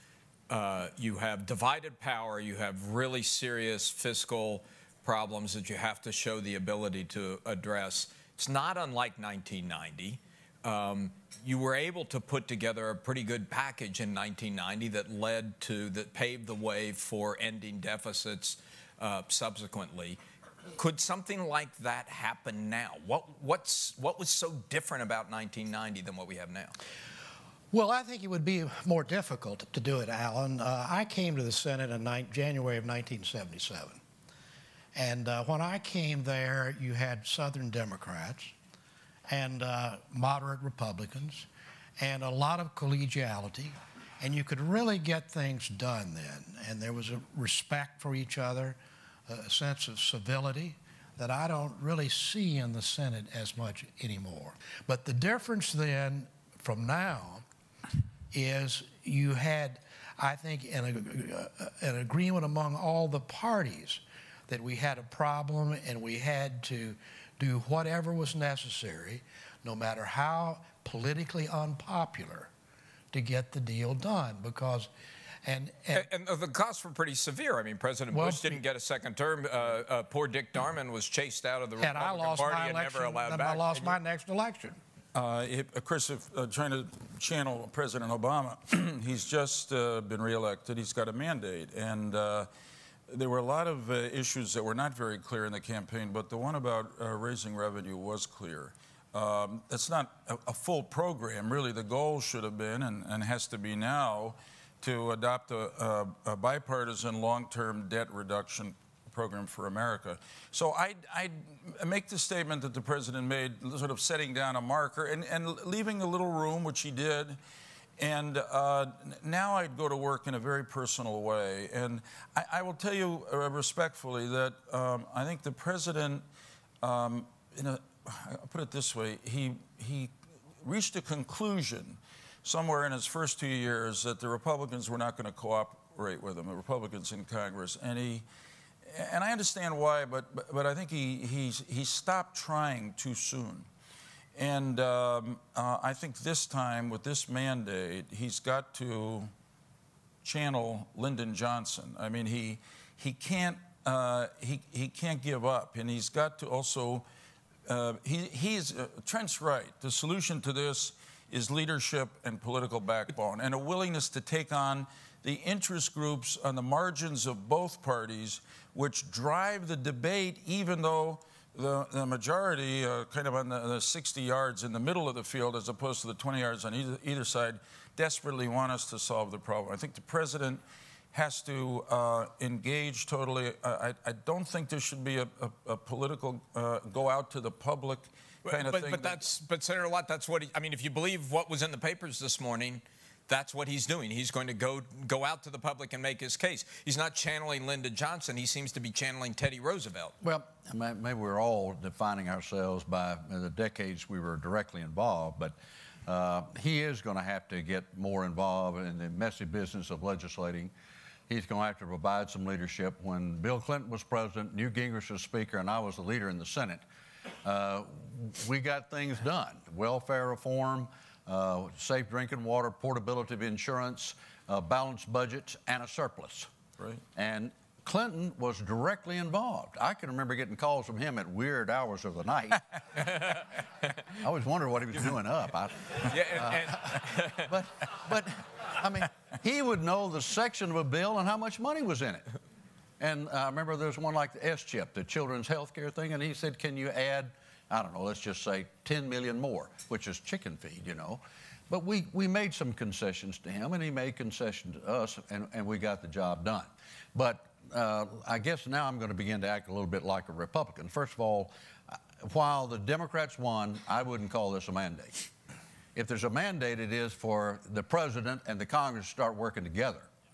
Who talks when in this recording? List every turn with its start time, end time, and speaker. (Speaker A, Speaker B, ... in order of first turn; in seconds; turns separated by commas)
Speaker A: 0.5-20.2, Speaker A: 20.7-26.7, Speaker B: 27.7-34.0, Speaker B: 34.9-38.5, Speaker B: 39.3-41.5, Speaker B: 42.0-57.4, Speaker B: 58.3-72.5, Speaker B: 73.1-74.9, Speaker B: 75.4-76.1, Speaker A: 75.9-83.9, Speaker B: 78.1-78.6, Speaker B: 81.8-84.8, Speaker C: 85.1-92.5, Speaker C: 93.1-117.4, Speaker C: 118.0-126.2, Speaker C: 126.8-130.1, Speaker C: 130.6-138.2, Speaker C: 138.9-143.7, Speaker C: 144.3-149.3, Speaker C: 150.2-157.0, Speaker C: 157.7-180.6, Speaker C: 181.1-189.2, Speaker A: 188.4-200.1, Speaker D: 200.2-205.5, Speaker D: 206.1-210.7, Speaker D: 211.3-216.8, Speaker D: 217.4-226.5, Speaker D: 227.2-232.7, Speaker A: 233.0-233.4, Speaker D: 234.2-236.8, Speaker A: 236.1-237.5, Speaker D: 237.4-242.3, Speaker D: 243.0-265.3, Speaker D: 265.9-270.1